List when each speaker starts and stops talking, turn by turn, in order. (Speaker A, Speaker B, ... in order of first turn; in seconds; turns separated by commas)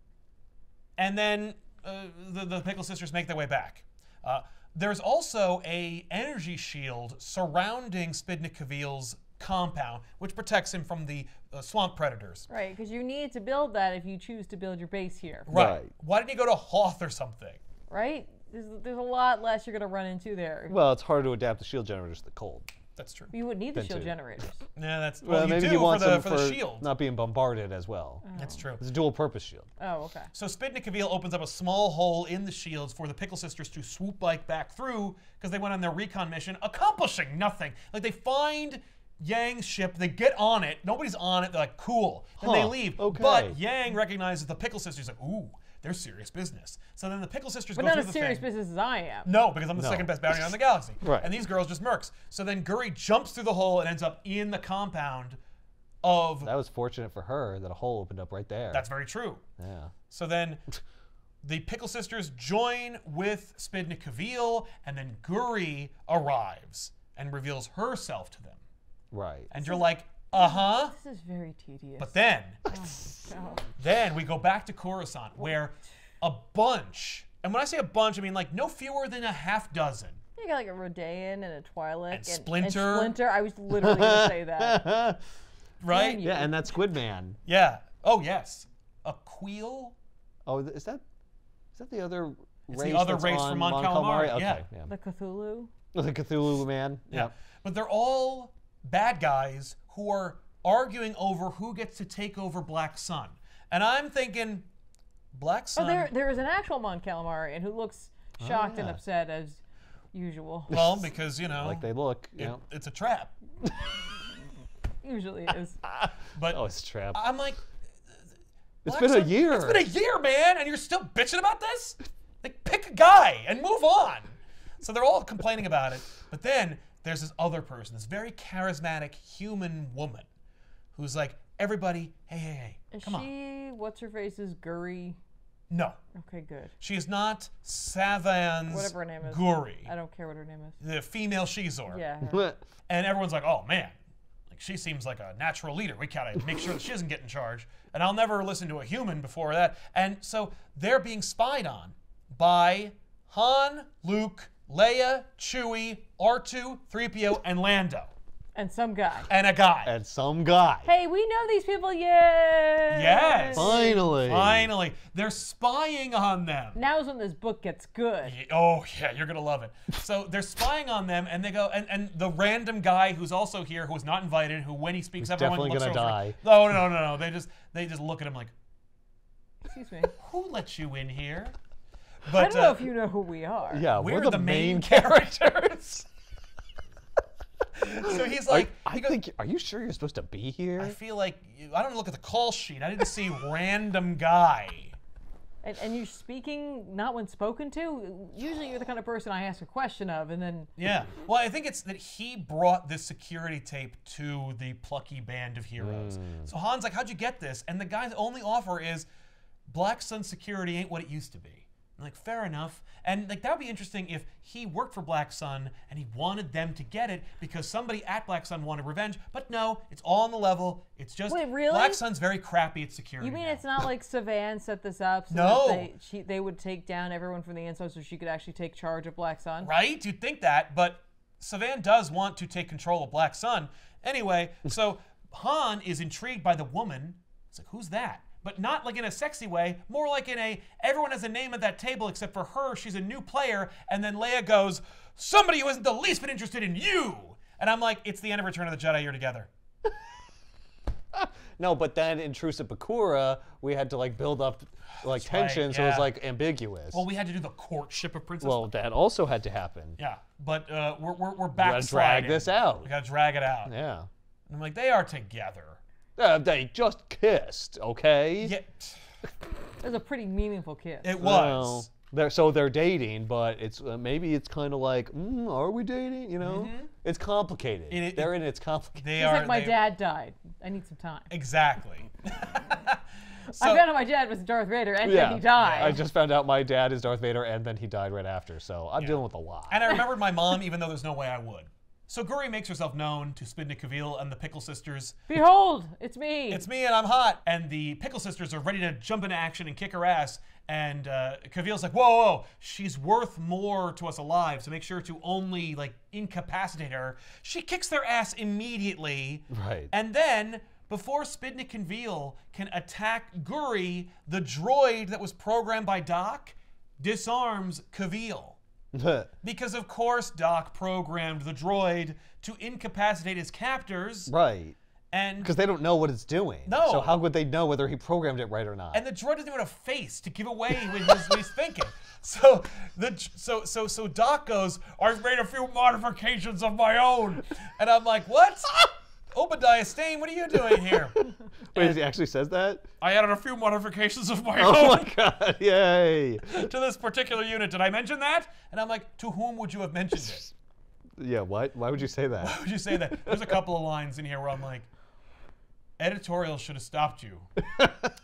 Speaker A: 1.0-12.5, Speaker B: 12.5-15.5, Speaker A: 15.5-17.6, Speaker C: 15.5-15.9, Speaker B: 17.9-20.8, Speaker C: 20.7-22.7, Speaker A: 23.0-23.3, Speaker B: 23.3-24.6, Speaker C: 23.8-24.1, Speaker A: 24.8-26.9, Speaker C: 25.2-28.2, Speaker B: 28.3-28.6, Speaker A: 28.4-28.8, Speaker C: 28.8-29.7, Speaker B: 29.8-30.3, Speaker A: 30.3-48.5, Speaker C: 42.4-43.6, Speaker B: 47.8-49.3, Speaker A: 49.3-55.4, Speaker C: 49.8-50.4, Speaker C: 51.0-51.3, Speaker A: 56.0-56.5, Speaker C: 56.4-58.9, Speaker A: 58.7-59.4, Speaker C: 59.6-59.9, Speaker A: 60.1-60.6, Speaker A: 61.4-68.6, Speaker C: 69.1-69.5, Speaker A: 69.5-71.0, Speaker B: 69.6-72.1, Speaker A: 72.0-72.6, Speaker B: 72.7-73.7, Speaker A: 73.8-80.2, Speaker B: 80.4-85.0, Speaker A: 82.1-83.1, Speaker C: 83.7-85.2, Speaker A: 85.8-86.2, Speaker B: 85.9-86.8, Speaker C: 86.2-87.4, Speaker A: 87.5-90.0, Speaker C: 90.5-91.0, Speaker C: 91.8-94.9, Speaker A: 92.7-94.7, Speaker B: 94.9-95.7, Speaker C: 95.9-97.3, Speaker A: 97.1-104.7, Speaker A: 105.3-106.1, Speaker B: 105.8-109.6, Speaker C: 108.4-109.0, Speaker B: 110.1-110.8, Speaker A: 110.7-113.4, Speaker C: 110.7-111.0, Speaker C: 111.6-112.6, Speaker B: 115.0-115.8, Speaker C: 115.9-117.2, Speaker A: 116.3-117.6, Speaker C: 118.8-119.8, Speaker A: 118.8-130.3, Speaker A: 130.9-133.3, Speaker B: 132.9-135.2, Speaker A: 135.7-136.0, Speaker B: 136.2-136.7, Speaker A: 136.8-139.9, Speaker B: 138.7-140.8, Speaker A: 140.8-142.0, Speaker B: 141.9-142.4, Speaker C: 142.2-142.6, Speaker A: 142.9-143.9, Speaker A: 144.5-158.1, Speaker B: 158.6-159.3, Speaker A: 159.3-159.9, Speaker C: 159.9-160.9, Speaker B: 160.8-164.0, Speaker A: 162.9-166.8, Speaker C: 163.6-164.7, Speaker B: 166.8-168.4, Speaker A: 168.2-178.5, Speaker C: 175.2-176.4, Speaker B: 179.7-180.1, Speaker A: 180.2-181.6, Speaker A: 182.2-182.8, Speaker B: 182.3-183.9, Speaker C: 183.7-185.6, Speaker A: 183.9-186.1, Speaker A: 187.8-189.2, Speaker C: 188.0-191.0, Speaker A: 190.8-195.0, Speaker B: 195.6-200.7, Speaker A: 200.8-209.1, Speaker C: 205.8-206.5, Speaker A: 209.7-223.6, Speaker B: 221.3-222.0, Speaker B: 223.2-229.7, Speaker A: 225.3-225.9, Speaker A: 229.6-249.5, Speaker C: 251.1-257.0, Speaker A: 255.1-256.1, Speaker A: 256.9-258.7, Speaker C: 258.4-260.0, Speaker A: 260.0-263.7, Speaker C: 261.6-262.9, Speaker C: 263.7-264.1, Speaker A: 264.5-265.8, Speaker C: 266.2-268.5, Speaker A: 268.4-269.0, Speaker B: 269.8-271.1, Speaker A: 271.0-271.9, Speaker C: 271.2-279.1, Speaker A: 276.4-276.9, Speaker A: 277.9-278.4, Speaker A: 278.9-279.8, Speaker B: 279.1-281.3, Speaker A: 281.3-283.8, Speaker B: 283.6-286.0, Speaker C: 285.0-289.9, Speaker A: 285.6-286.0, Speaker A: 289.0-295.2, Speaker B: 295.3-296.6, Speaker A: 296.5-318.6, Speaker C: 309.5-309.9, Speaker C: 318.9-319.3, Speaker A: 319.4-324.3, Speaker C: 324.3-324.8, Speaker A: 325.1-325.5, Speaker C: 325.4-329.0, Speaker A: 326.7-327.2, Speaker A: 328.9-341.2, Speaker C: 340.8-341.0, Speaker C: 341.7-342.9, Speaker A: 343.0-345.1, Speaker C: 344.6-346.7, Speaker A: 346.5-350.5, Speaker C: 351.2-353.6, Speaker A: 352.4-354.9, Speaker A: 356.0-357.5